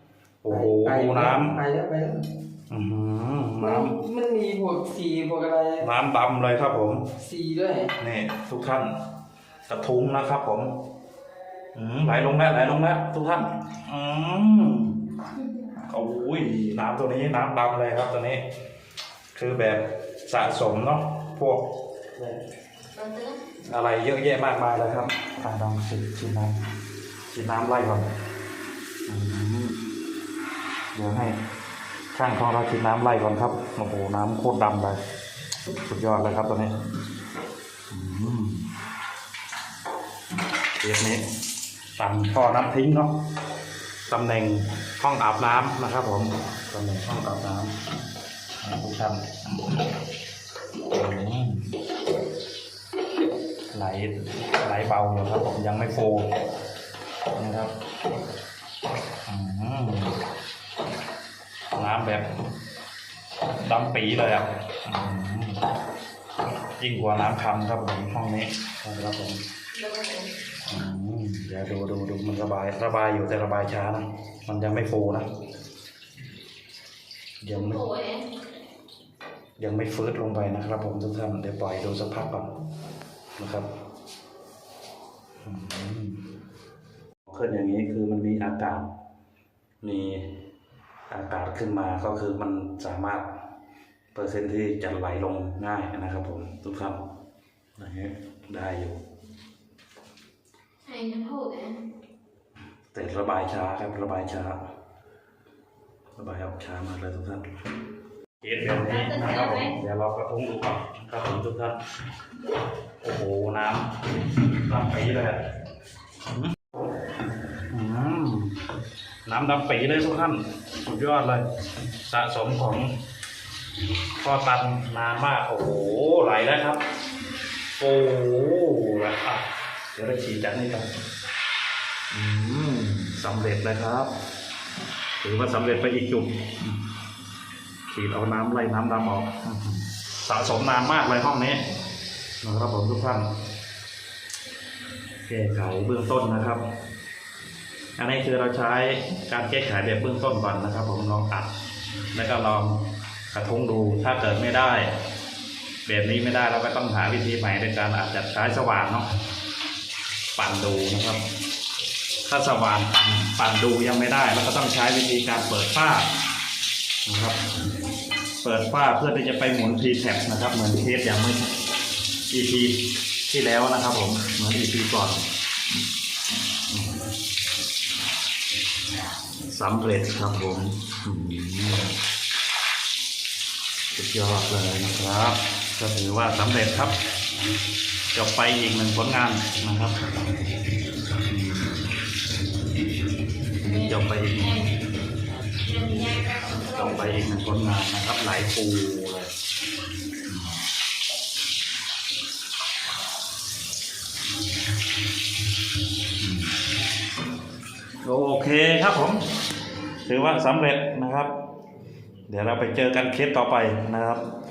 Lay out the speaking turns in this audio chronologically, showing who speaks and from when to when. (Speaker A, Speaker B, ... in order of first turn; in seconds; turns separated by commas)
Speaker A: 0.4-1.6, Speaker B: 0.5-2.2, Speaker A: 2.7-4.0, Speaker B: 3.6-5.9, Speaker A: 5.8-7.1, Speaker B: 7.2-7.9, Speaker A: 8.0-8.9, Speaker A: 9.7-10.7, Speaker A: 11.7-15.0, Speaker A: 15.9-18.4, Speaker A: 19.3-21.6, Speaker C: 22.9-23.4, Speaker A: 23.7-26.5, Speaker A: 27.3-28.1, Speaker A: 29.1-29.8, Speaker A: 30.9-31.4, Speaker A: 32.1-35.0, Speaker A: 35.9-36.7, Speaker A: 37.9-38.6, Speaker A: 40.8-41.2, Speaker A: 42.0-43.1, Speaker A: 44.1-47.7, Speaker A: 48.6-49.7, Speaker A: 50.9-51.7, Speaker A: 53.7-56.3, Speaker A: 57.4-57.7, Speaker A: 59.2-60.2, Speaker A: 61.7-62.2, Speaker A: 63.5-65.6, Speaker A: 66.8-69.4, Speaker C: 69.8-70.3, Speaker A: 70.7-75.3, Speaker A: 77.4-77.8, Speaker C: 77.5-78.2, Speaker A: 79.6-82.5, Speaker A: 83.4-83.7, Speaker A: 85.4-86.2, Speaker A: 87.3-88.9, Speaker A: 89.8-90.3, Speaker A: 91.1-93.3, Speaker A: 94.1-97.0, Speaker A: 97.8-99.0, Speaker C: 100.8-101.8, Speaker A: 102.9-104.6, Speaker A: 106.2-107.5, Speaker A: 108.4-111.8, Speaker C: 108.8-109.7, Speaker A: 113.0-115.4, Speaker A: 116.3-116.7, Speaker A: 117.7-118.6, Speaker A: 119.2-121.4, Speaker A: 122.0-122.9, Speaker A: 124.2-126.8, Speaker A: 127.8-130.9, Speaker A: 132.1-134.1, Speaker A: 135.2-136.8, Speaker A: 137.9-141.6, Speaker A: 142.4-143.3, Speaker A: 145.2-146.6, Speaker A: 148.0-151.5, Speaker A: 152.1-154.9, Speaker A: 155.8-159.1, Speaker A: 160.4-161.2, Speaker A: 162.2-166.1, Speaker A: 167.1-167.4, Speaker A: 168.4-171.4, Speaker A: 172.3-175.2, Speaker A: 176.7-177.0, Speaker A: 179.5-181.9, Speaker A: 183.9-186.9, Speaker A: 188.1-190.0, Speaker A: 191.3-191.8, Speaker A: 193.6-194.6, Speaker C: 195.6-197.2, Speaker A: 196.7-199.3, Speaker A: 200.3-200.6, Speaker A: 206.2-206.5, Speaker A: 208.0-209.2, Speaker A: 210.0-211.3, Speaker A: 212.3-214.2